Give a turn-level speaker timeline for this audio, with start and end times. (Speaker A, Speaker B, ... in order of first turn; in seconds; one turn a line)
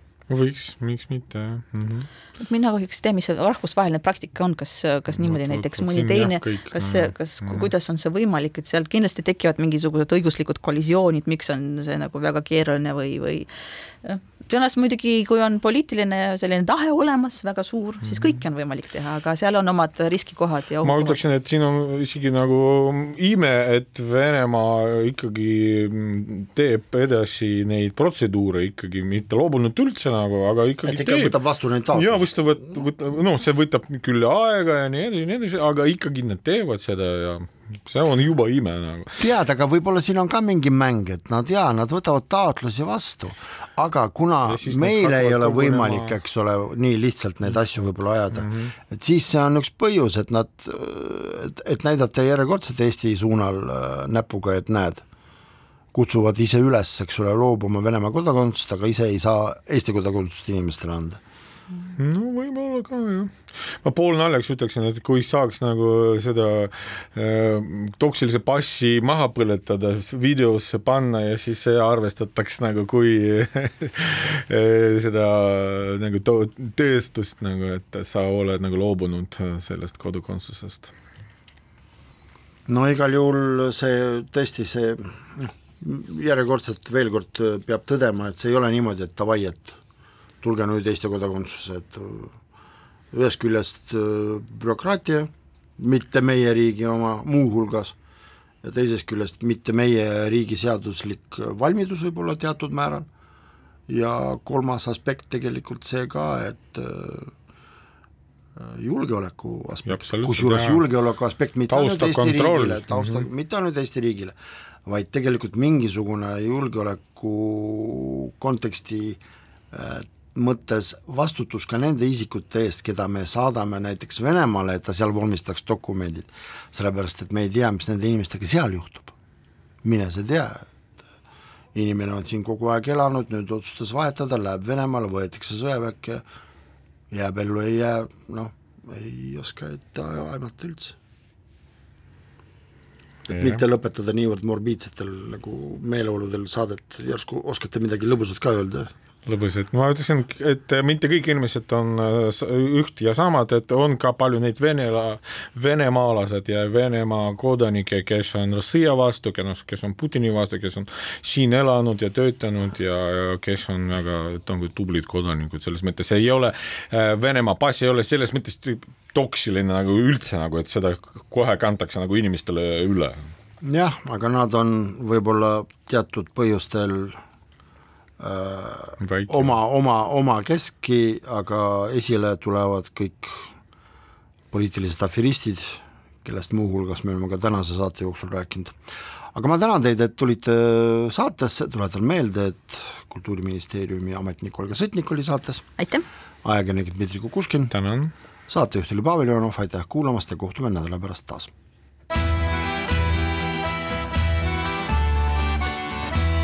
Speaker A: 0.3-2.1
Speaker B: 2.4-13.5
Speaker A: 5.1-7.7
Speaker B: 14.0-21.2
Speaker A: 20.8-31.3
Speaker C: 30.8-32.3
Speaker A: 31.9-39.3
Speaker C: 39.2-55.0
Speaker A: 44.5-46.2
Speaker A: 48.4-48.7
Speaker C: 55.9-61.2
Speaker A: 62.0-80.9
Speaker C: 82.7-89.8
Speaker C: 90.4-92.3
Speaker C: 93.1-98.0
Speaker C: 98.6-103.1
Speaker C: 103.9-107.3
Speaker C: 108.6-114.3
Speaker A: 109.9-110.8
Speaker A: 111.7-113.3
Speaker C: 114.9-119.2
Speaker C: 119.7-129.1
Speaker C: 129.8-130.7
Speaker C: 131.7-136.2
Speaker C: 137.1-141.0
Speaker C: 143.3-148.9
Speaker A: 143.3-143.6
Speaker A: 149.3-173.3
Speaker C: 173.6-177.2
Speaker C: 178.2-183.5
Speaker A: 179.0-179.6
Speaker C: 184.5-188.7
Speaker C: 189.3-195.7
Speaker B: 195.8-196.1
Speaker C: 196.4-197.7
Speaker A: 197.7-198.1
Speaker C: 198.5-201.5